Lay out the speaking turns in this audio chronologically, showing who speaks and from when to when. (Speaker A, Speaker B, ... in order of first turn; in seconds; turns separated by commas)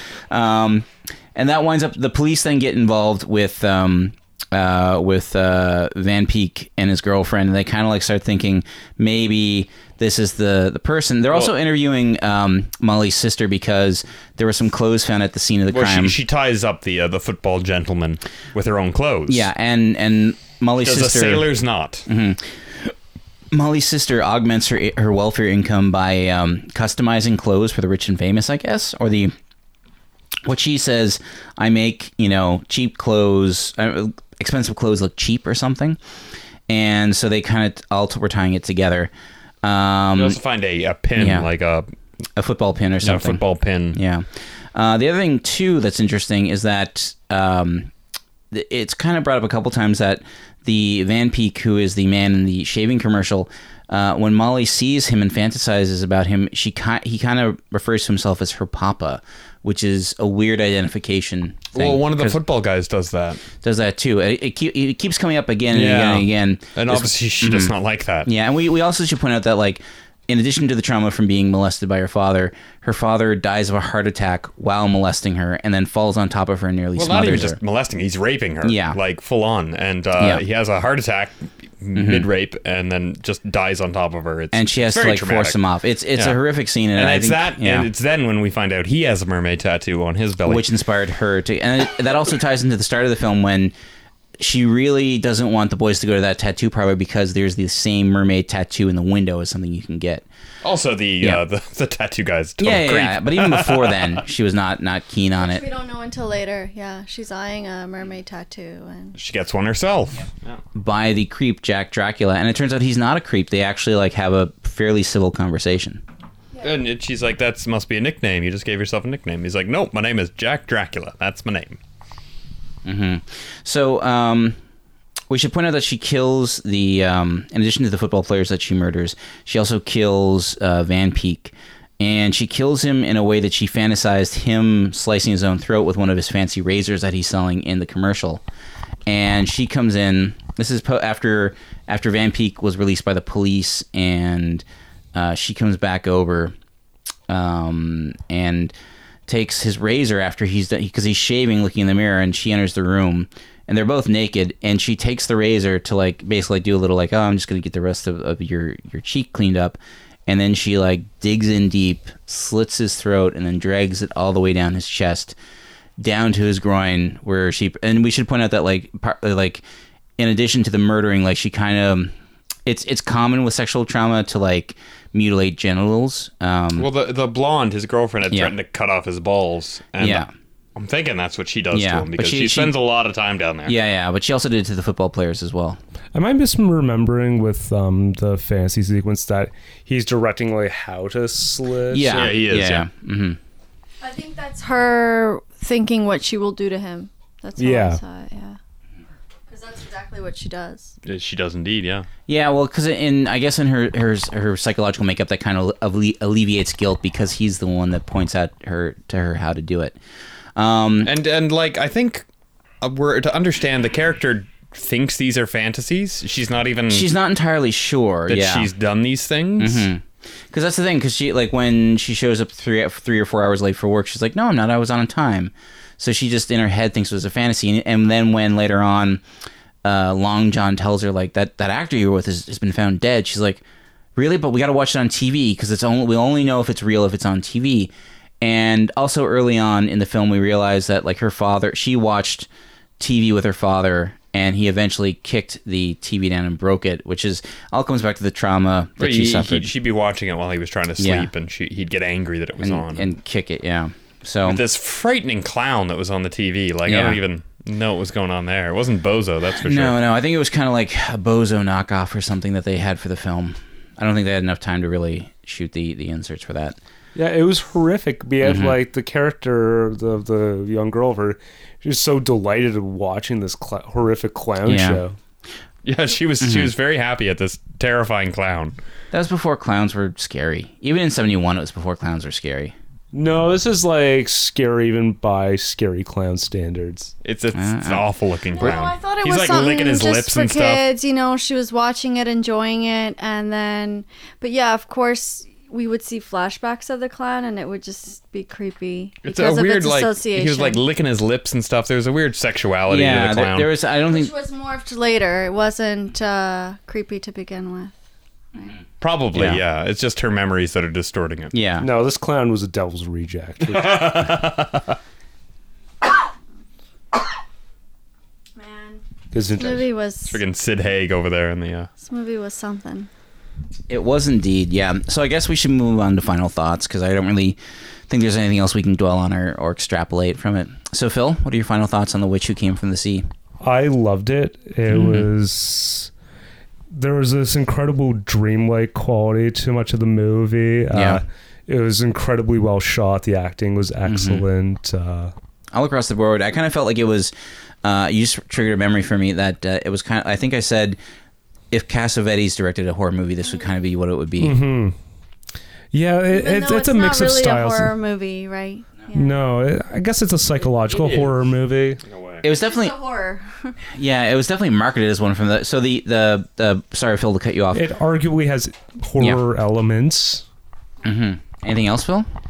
Speaker A: 0.3-16.2, Speaker B: 15.7-19.5, Speaker A: 19.3-21.5, Speaker B: 20.8-22.1, Speaker A: 22.1-22.9, Speaker A: 23.5-29.3, Speaker A: 30.4-36.0, Speaker A: 36.7-39.1, Speaker A: 39.6-40.4, Speaker B: 40.1-41.9, Speaker A: 41.2-41.5, Speaker A: 42.4-47.9, Speaker B: 43.0-44.0, Speaker A: 48.5-62.4, Speaker B: 61.8-63.4, Speaker A: 63.6-77.6, Speaker B: 65.7-68.3, Speaker B: 77.0-85.6, Speaker A: 78.6-79.0, Speaker A: 80.2-80.4, Speaker A: 81.9-82.3, Speaker A: 84.5-87.9, Speaker B: 87.0-90.7, Speaker A: 90.4-93.7, Speaker A: 94.4-100.2, Speaker B: 100.6-104.2, Speaker A: 102.6-105.6, Speaker C: 105.4-109.2, Speaker B: 109.2-110.6, Speaker A: 110.7-116.0, Speaker B: 116.6-121.8, Speaker A: 122.8-124.6, Speaker A: 125.3-138.4, Speaker A: 139.1-146.5, Speaker A: 147.3-148.7, Speaker A: 149.3-165.4, Speaker A: 166.0-169.6, Speaker A: 170.2-172.1, Speaker A: 172.7-176.9, Speaker B: 176.8-183.8, Speaker A: 180.0-180.3, Speaker A: 181.7-182.7, Speaker A: 183.7-185.8, Speaker D: 186.1-192.2, Speaker A: 191.9-193.4, Speaker B: 192.1-192.9, Speaker C: 194.0-198.6, Speaker D: 197.6-198.0, Speaker C: 199.5-200.9, Speaker B: 201.1-202.1, Speaker A: 202.3-210.0, Speaker A: 210.6-211.1, Speaker B: 211.0-212.3, Speaker B: 212.8-217.1, Speaker A: 216.9-218.7, Speaker B: 218.3-219.9, Speaker A: 219.6-229.2, Speaker A: 229.8-233.6, Speaker A: 234.2-242.5, Speaker A: 243.0-249.7, Speaker B: 249.0-253.1, Speaker A: 251.0-251.3, Speaker A: 252.6-254.6, Speaker B: 254.4-260.0, Speaker A: 256.9-257.2, Speaker A: 259.6-266.8, Speaker D: 267.1-275.1, Speaker A: 268.4-268.8, Speaker A: 274.7-275.0, Speaker B: 275.8-278.8, Speaker A: 276.4-276.7, Speaker A: 279.1-282.8, Speaker D: 283.1-287.1, Speaker B: 287.2-290.8, Speaker A: 287.6-288.1, Speaker C: 288.6-300.8, Speaker B: 299.2-303.7, Speaker A: 302.9-304.3, Speaker C: 304.1-308.0, Speaker B: 309.0-311.5, Speaker A: 309.3-309.6, Speaker A: 311.5-311.9, Speaker D: 311.8-314.4, Speaker B: 313.6-315.0, Speaker C: 318.6-319.0, Speaker D: 319.3-319.9, Speaker C: 319.6-320.4, Speaker B: 320.3-321.9, Speaker C: 322.0-323.1, Speaker A: 323.9-327.6, Speaker A: 328.1-333.3, Speaker D: 333.6-336.1, Speaker A: 334.9-335.3, Speaker D: 336.9-345.3, Speaker A: 340.9-341.2, Speaker A: 344.1-344.4, Speaker A: 345.7-347.3, Speaker A: 347.8-351.0, Speaker A: 351.7-354.6, Speaker D: 354.4-354.9, Speaker D: 355.9-357.9, Speaker C: 356.3-359.4, Speaker D: 359.1-362.0, Speaker B: 360.9-361.4, Speaker B: 362.0-362.4, Speaker A: 362.4-362.9, Speaker C: 362.5-363.8, Speaker A: 363.9-367.8, Speaker D: 367.7-370.4, Speaker A: 371.0-372.3